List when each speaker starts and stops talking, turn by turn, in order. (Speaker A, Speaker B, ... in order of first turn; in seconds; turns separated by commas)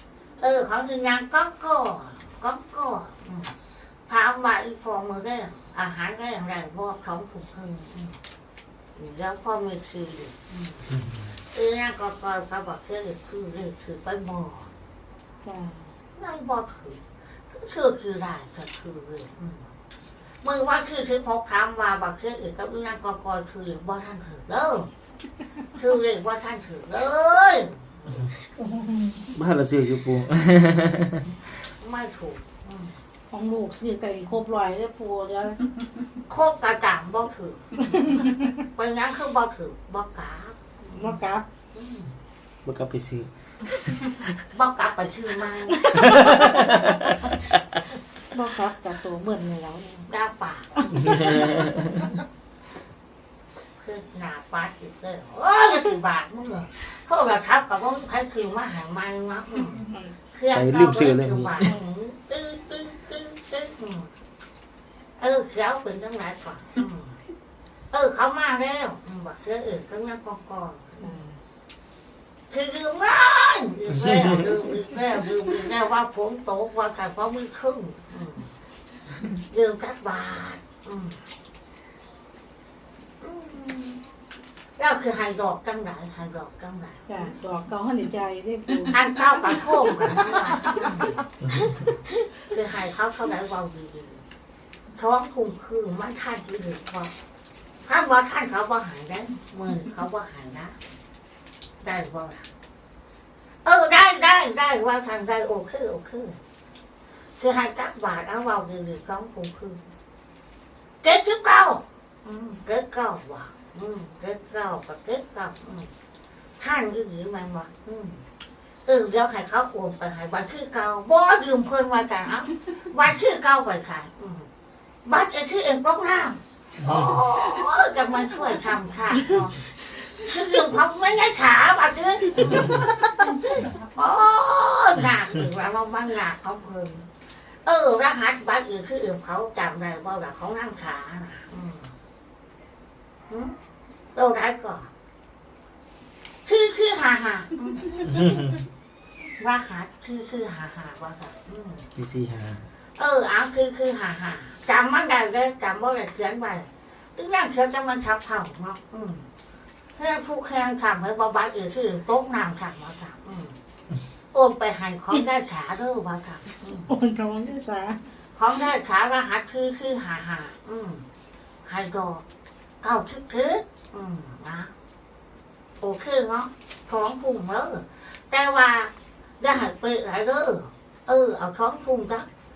Speaker A: 0.4-3.5, Speaker A: 4.1-8.2, Speaker A: 8.9-10.9, Speaker B: 10.9-11.3, Speaker A: 11.5-14.7, Speaker C: 15.4-15.9, Speaker A: 16.1-17.0, Speaker A: 17.5-19.6, Speaker A: 20.4-24.9, Speaker A: 25.8-28.3, Speaker C: 28.6-29.3, Speaker B: 29.3-31.2, Speaker A: 31.8-32.9, Speaker C: 33.3-35.7, Speaker A: 36.3-37.9, Speaker C: 37.9-38.3, Speaker A: 38.8-41.2, Speaker C: 40.9-41.4, Speaker A: 41.7-42.1, Speaker B: 42.6-44.1, Speaker A: 44.5-45.9, Speaker B: 46.0-47.0, Speaker C: 48.3-50.1, Speaker A: 50.1-51.4, Speaker B: 51.2-51.7, Speaker A: 53.8-64.1, Speaker C: 59.7-60.1, Speaker B: 60.5-61.7, Speaker A: 65.2-67.1, Speaker A: 67.9-71.1, Speaker C: 71.0-71.4, Speaker A: 72.5-78.5, Speaker A: 79.5-81.2, Speaker A: 83.2-84.0, Speaker A: 84.8-87.3, Speaker C: 87.1-91.1, Speaker A: 88.9-91.1, Speaker A: 92.5-94.2, Speaker A: 95.0-97.1, Speaker A: 97.8-100.8, Speaker A: 101.8-102.5, Speaker A: 103.6-106.3, Speaker A: 107.4-109.8, Speaker A: 111.0-115.9, Speaker A: 116.6-118.2, Speaker A: 118.8-124.5, Speaker A: 125.0-129.6, Speaker A: 130.2-132.9, Speaker A: 133.9-137.0, Speaker A: 137.6-141.9, Speaker A: 143.3-143.5, Speaker A: 144.1-144.9, Speaker A: 146.4-148.0, Speaker B: 148.1-148.6, Speaker A: 149.4-151.8, Speaker B: 151.9-152.7, Speaker A: 153.0-159.2, Speaker A: 159.9-163.5, Speaker A: 164.3-166.9, Speaker C: 166.9-168.0, Speaker A: 168.3-171.0, Speaker A: 171.7-172.2, Speaker A: 172.8-174.7, Speaker A: 175.8-182.2